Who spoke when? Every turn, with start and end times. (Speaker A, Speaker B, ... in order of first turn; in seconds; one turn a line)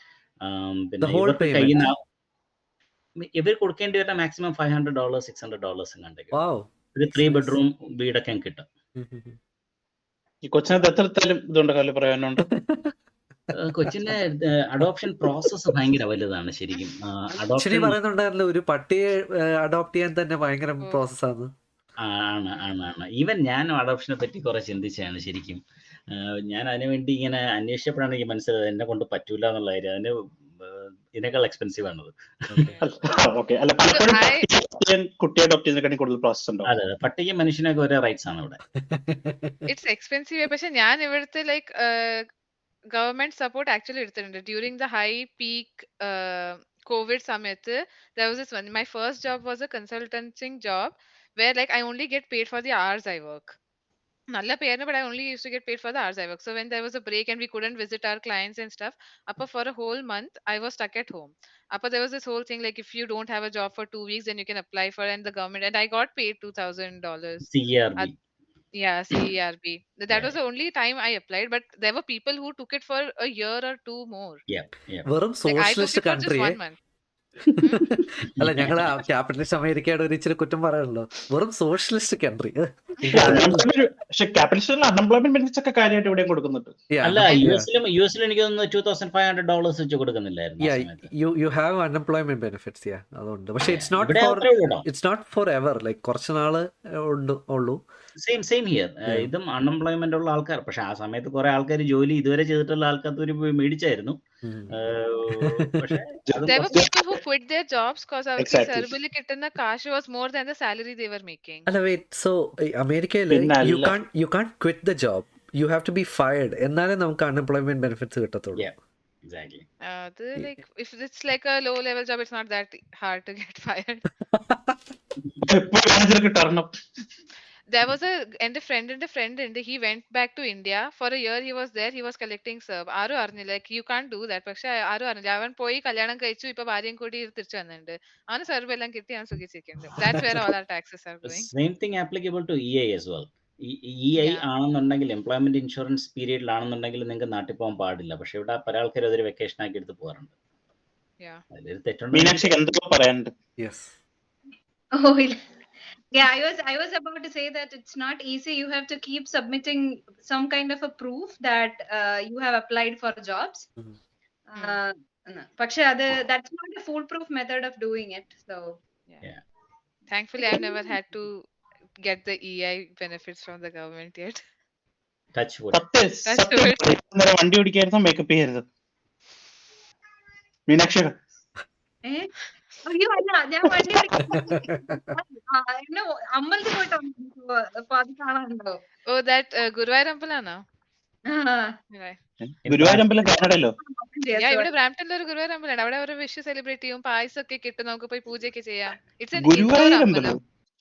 Speaker A: 0.5-2.0
Speaker B: 1.0-1.9
Speaker A: 3.2-6.3
Speaker B: 6.3-7.6
Speaker A: 6.9-8.7
Speaker B: 9.0-9.4
Speaker C: 10.4-12.4
Speaker B: 12.5-12.9
Speaker A: 13.5-18.0
Speaker B: 13.9-14.2
Speaker B: 15.2-15.5
Speaker B: 17.4-21.5
Speaker A: 22.0-25.6
Speaker A: 26.1-32.7
Speaker D: 32.6-32.9
Speaker C: 32.8-36.7
Speaker D: 33.9-34.5
Speaker A: 36.6-38.6
Speaker B: 38.9-39.6
Speaker D: 39.7-42.3
Speaker D: 42.9-53.6
Speaker D: 54.3-68.1
Speaker A: 67.5-68.1
Speaker D: 68.8-74.4
Speaker A: 74.5-75.1
Speaker B: 75.1-76.6
Speaker D: 75.5-76.8
Speaker D: 77.6-77.9
Speaker C: 77.6-77.9
Speaker B: 77.8-83.7
Speaker C: 83.1-86.8
Speaker A: 83.2-83.5
Speaker B: 86.9-87.7
Speaker A: 87.0-91.1
Speaker B: 90.6-97.8
Speaker A: 93.6-94.9
Speaker A: 98.2-104.2
Speaker B: 104.4-104.7
Speaker A: 104.7-106.8
Speaker B: 105.3-105.9
Speaker C: 106.3-106.9
Speaker D: 106.4-111.7
Speaker C: 108.4-109.0
Speaker B: 111.7-118.7
Speaker C: 113.3-114.0
Speaker A: 119.3-119.7
Speaker D: 119.8-124.1
Speaker B: 124.3-124.8
Speaker C: 125.5-126.7
Speaker D: 127.7-141.5
Speaker A: 141.2-150.3
Speaker D: 144.2-144.5
Speaker A: 151.5-152.6
Speaker C: 152.1-153.3
Speaker B: 153.6-153.9
Speaker E: 155.0-155.4
Speaker E: 156.1-163.7
Speaker E: 164.5-168.8
Speaker D: 170.1-171.4
Speaker E: 170.4-170.9
Speaker D: 172.0-174.4
Speaker A: 175.4-175.8
Speaker C: 175.7-178.7
Speaker D: 176.3-176.9
Speaker C: 180.7-181.1
Speaker E: 182.1-182.3
Speaker E: 182.8-188.8
Speaker B: 184.3-185.0
Speaker D: 189.1-190.6
Speaker E: 191.3-191.8
Speaker D: 191.9-192.2
Speaker C: 192.5-193.7
Speaker A: 192.7-193.0
Speaker E: 193.8-194.7
Speaker D: 194.3-200.4
Speaker C: 199.3-200.4